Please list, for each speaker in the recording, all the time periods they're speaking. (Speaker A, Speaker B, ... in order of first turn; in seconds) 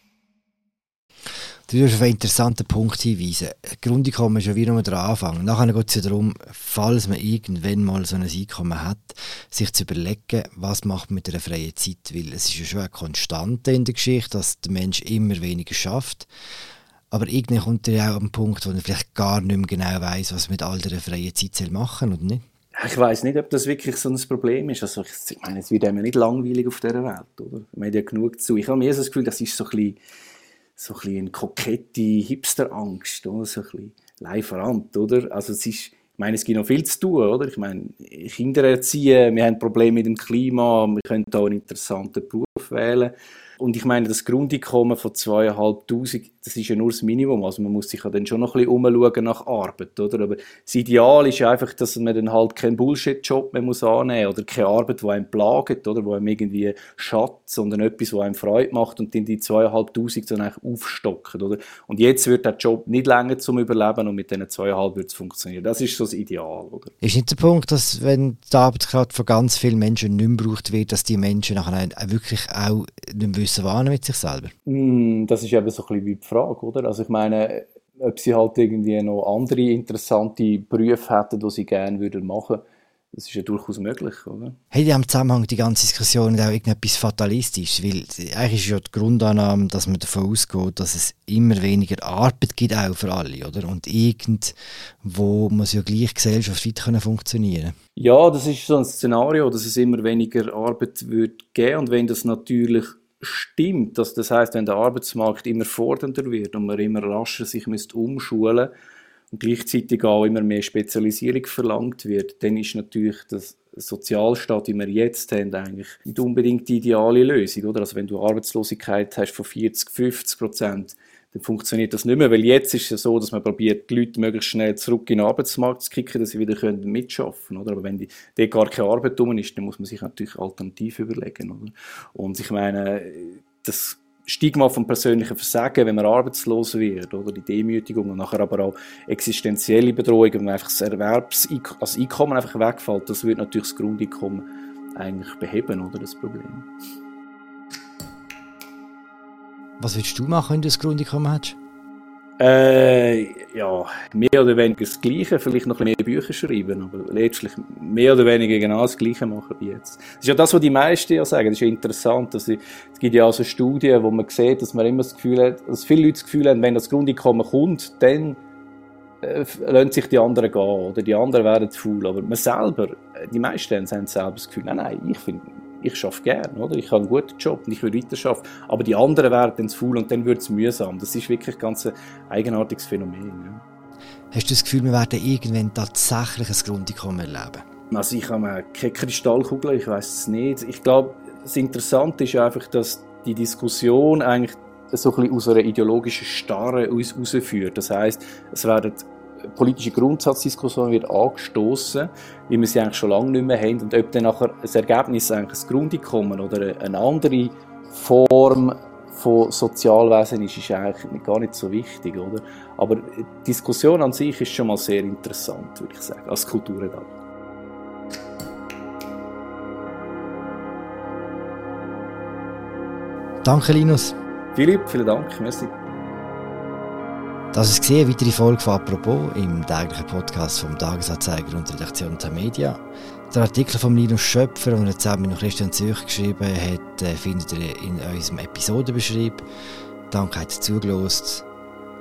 Speaker A: 1.7-16.3, 17.1-22.4, 67.0-74.5, 84.7-97.8, 149.8-151.6, 184.3-187.6, 223.4-224.2, 227.5-239.4, 240.1-241.4
Speaker B: 22.8-30.0, 30.8-66.9, 74.7-82.6, 83.1-84.6, 98.0-108.7, 109.3-144.4, 145.0-146.7, 152.4-168.4, 169.2-183.6, 187.9-217.1, 224.6-225.7